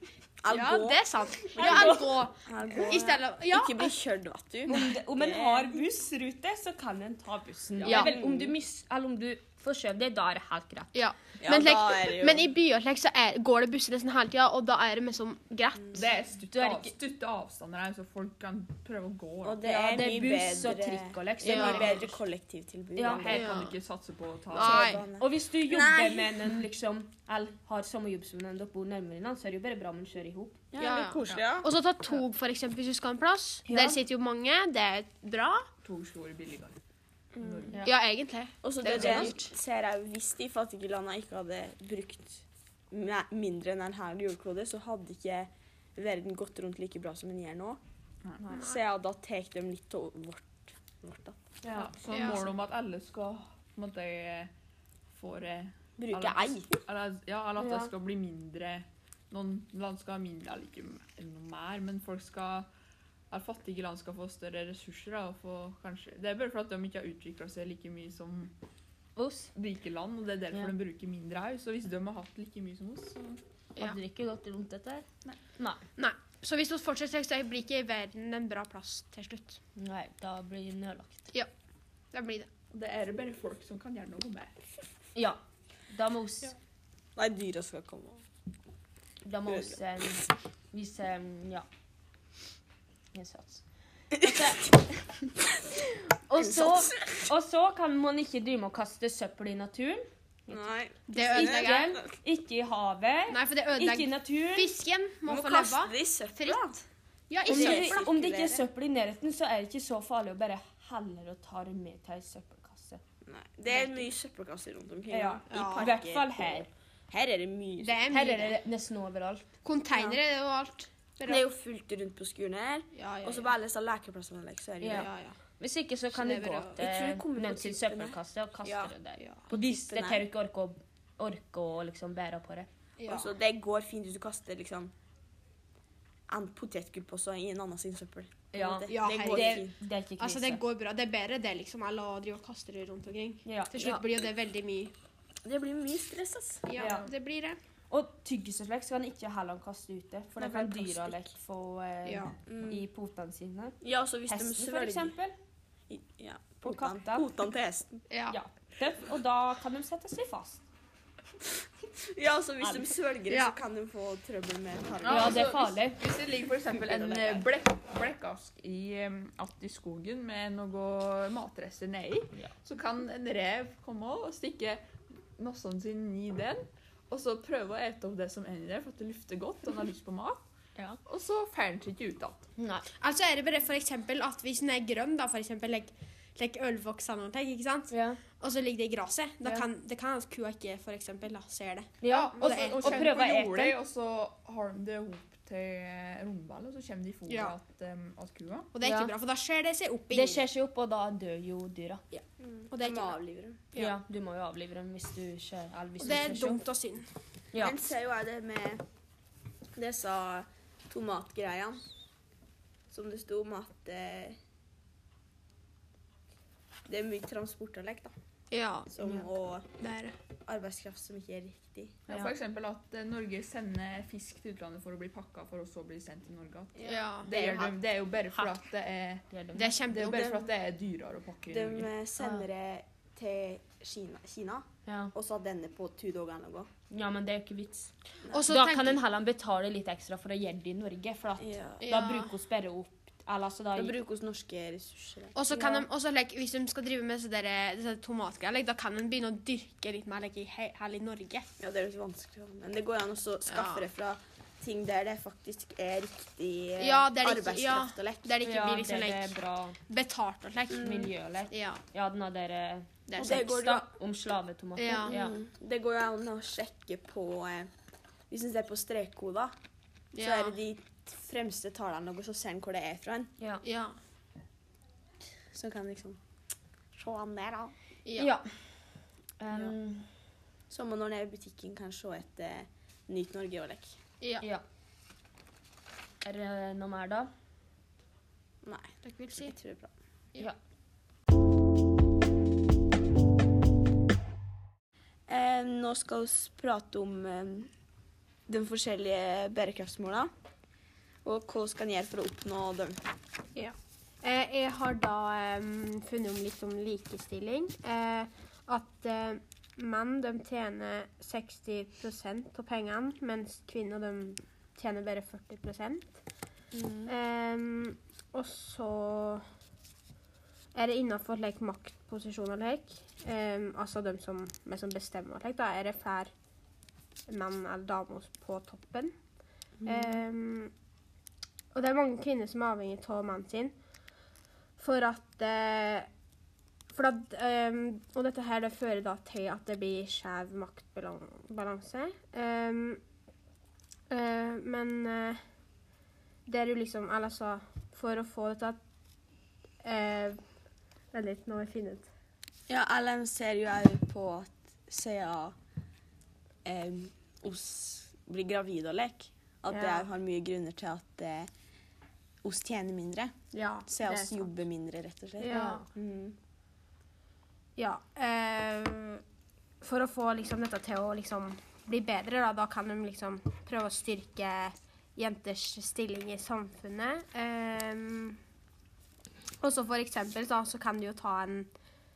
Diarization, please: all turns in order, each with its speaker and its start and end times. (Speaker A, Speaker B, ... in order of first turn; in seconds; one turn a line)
Speaker A: 0.4-5.8
Speaker B: 0.5-3.9
Speaker C: 1.5-2.1
Speaker C: 4.7-10.9
Speaker D: 7.8-8.1
Speaker A: 7.9-8.5
Speaker B: 10.9-16.0
Speaker A: 11.4-12.5
Speaker D: 15.9-19.6
Speaker C: 16.5-16.9
Speaker A: 19.4-23.5
Speaker C: 19.6-22.2
Speaker B: 21.4-21.9
Speaker C: 22.9-23.5
Speaker D: 23.1-25.0
Speaker B: 23.3-23.7
Speaker B: 24.5-25.0
Speaker A: 24.5-26.6
Speaker C: 25.1-30.6
Speaker A: 30.7-31.7
Speaker B: 30.8-35.7
Speaker C: 33.7-34.0
Speaker D: 35.8-36.8
Speaker D: 37.4-37.8
Speaker B: 37.6-39.4
Speaker C: 37.7-37.9
Speaker A: 38.6-47.8
Speaker D: 38.9-39.3
Speaker C: 39.0-39.4
Speaker A: 48.4-51.4
Speaker C: 51.6-51.9
Speaker D: 51.8-54.5
Speaker B: 52.1-52.4
Speaker D: 55.1-62.7
Speaker A: 56.0-56.7
Speaker C: 57.6-57.9
Speaker D: 63.3-68.5
Speaker C: 69.2-69.5
Speaker D: 69.5-73.4
Speaker C: 73.8-75.8
Speaker B: 76.0-79.6
Speaker C: 79.8-81.3
Speaker B: 82.1-82.5
Speaker D: 82.7-84.6
Speaker C: 85.1-86.5
Speaker A: 87.2-88.2
Speaker C: 89.2-91.7
Speaker A: 89.5-89.8
Speaker C: 93.1-95.0
Speaker C: 96.1-100.6
Speaker A: 96.4-97.2
Speaker A: 100.5-102.1
Speaker B: 101.1-101.9
Speaker C: 101.3-104.7
Speaker B: 103.3-106.6
Speaker A: 105.2-106.8
Speaker B: 107.3-108.0
Speaker A: 107.4-108.6
Speaker C: 107.4-113.0
Speaker A: 113.2-118.1
Speaker B: 113.7-114.0
Speaker C: 115.1-116.7
Speaker B: 115.5-115.9
Speaker B: 117.8-118.5
Speaker C: 118.1-119.5
Speaker B: 119.6-121.4
Speaker A: 121.2-125.1
Speaker B: 122.9-123.5
Speaker C: 124.8-125.1
Speaker B: 124.9-125.4
Speaker C: 125.6-132.7
Speaker A: 126.1-128.9
Speaker A: 129.5-130.2
Speaker B: 133.0-133.3
Speaker A: 133.1-134.9
Speaker A: 136.3-139.7
Speaker C: 138.5-140.6
Speaker B: 138.9-144.9
Speaker C: 143.4-144.0
Speaker A: 145.4-146.8
Speaker B: 146.7-147.6
Speaker C: 146.8-147.1
Speaker C: 147.9-155.3
Speaker A: 150.3-151.2
Speaker B: 152.1-152.3
Speaker A: 152.5-152.8
Speaker A: 153.8-155.2
Speaker A: 155.9-158.0
Speaker C: 156.6-157.3
Speaker B: 158.1-158.4
Speaker C: 158.3-160.6
Speaker A: 161.9-165.6
Speaker C: 162.6-162.9
Speaker B: 163.3-163.6
Speaker D: 165.0-180.4
Speaker C: 165.0-166.0
Speaker A: 166.7-167.5
Speaker D: 181.1-182.4
Speaker C: 182.6-182.8
Speaker B: 183.0-193.1
Speaker C: 187.9-188.2
Speaker C: 192.0-193.8
Speaker D: 192.3-198.7
Speaker B: 197.3-197.5
Speaker B: 198.7-200.4
Speaker C: 198.8-199.1
Speaker C: 200.1-202.0
Speaker B: 202.1-203.2
Speaker A: 202.4-203.6
Speaker C: 203.7-206.6
Speaker B: 206.0-207.1
Speaker C: 207.5-207.8
Speaker A: 207.6-208.8
Speaker A: 209.7-211.9
Speaker A: 212.9-214.4
Speaker A: 216.9-218.1
Speaker B: 218.5-218.9
Speaker A: 218.9-219.7
Speaker B: 219.8-220.2
Speaker A: 220.4-222.0
Speaker D: 222.1-229.2
Speaker A: 226.8-227.8
Speaker B: 226.8-227.3
Speaker C: 229.3-229.8
Speaker B: 229.5-230.3
Speaker D: 229.9-231.9
Speaker A: 229.9-230.5
Speaker A: 231.5-236.7
Speaker C: 234.8-235.1
Speaker C: 236.9-243.9
Speaker A: 238.2-238.5
Speaker B: 238.3-239.0
Speaker A: 241.4-241.9
Speaker B: 241.8-242.3
Speaker A: 243.8-245.8
Speaker B: 245.3-251.5
Speaker C: 245.5-245.8
Speaker A: 251.6-258.3
Speaker B: 253.5-253.8
Speaker B: 256.8-261.8
Speaker C: 258.4-259.8
Speaker A: 260.7-261.1
Speaker C: 260.7-265.3
Speaker B: 263.1-263.4
Speaker A: 263.2-263.9
Speaker B: 264.8-265.1
Speaker A: 264.9-267.7
Speaker A: 268.3-269.5
Speaker B: 270.1-270.5
Speaker A: 270.2-273.3
Speaker B: 273.6-274.0
Speaker A: 275.5-276.2
Speaker A: 276.9-277.7
Speaker B: 278.0-278.3
Speaker C: 278.2-278.6
Speaker C: 279.4-280.1
Speaker A: 280.7-283.9
Speaker B: 284.2-284.5
Speaker C: 286.2-287.3
Speaker A: 288.6-289.9
Speaker B: 289.0-289.5
Speaker A: 295.3-297.7
Speaker A: 298.5-300.3
Speaker A: 301.2-303.0
Speaker B: 303.5-316.1
Speaker A: 316.7-317.1
Speaker B: 317.1-319.4
Speaker B: 320.7-326.3
Speaker B: 327.3-329.1
Speaker B: 329.8-330.7
Speaker B: 331.7-333.7
Speaker B: 334.8-336.1
Speaker B: 336.9-343.0
Speaker B: 344.1-345.4
Speaker B: 346.5-348.8
Speaker B: 349.8-350.4
Speaker B: 351.1-352.1
Speaker A: 352.7-355.5
Speaker A: 356.6-361.5
Speaker B: 359.7-360.0
Speaker A: 362.4-363.3
Speaker B: 363.5-364.4
Speaker A: 363.9-366.4
Speaker B: 365.4-365.8
Speaker C: 365.5-365.8
Speaker B: 367.8-369.2
Speaker B: 369.8-378.4
Speaker B: 379.6-381.7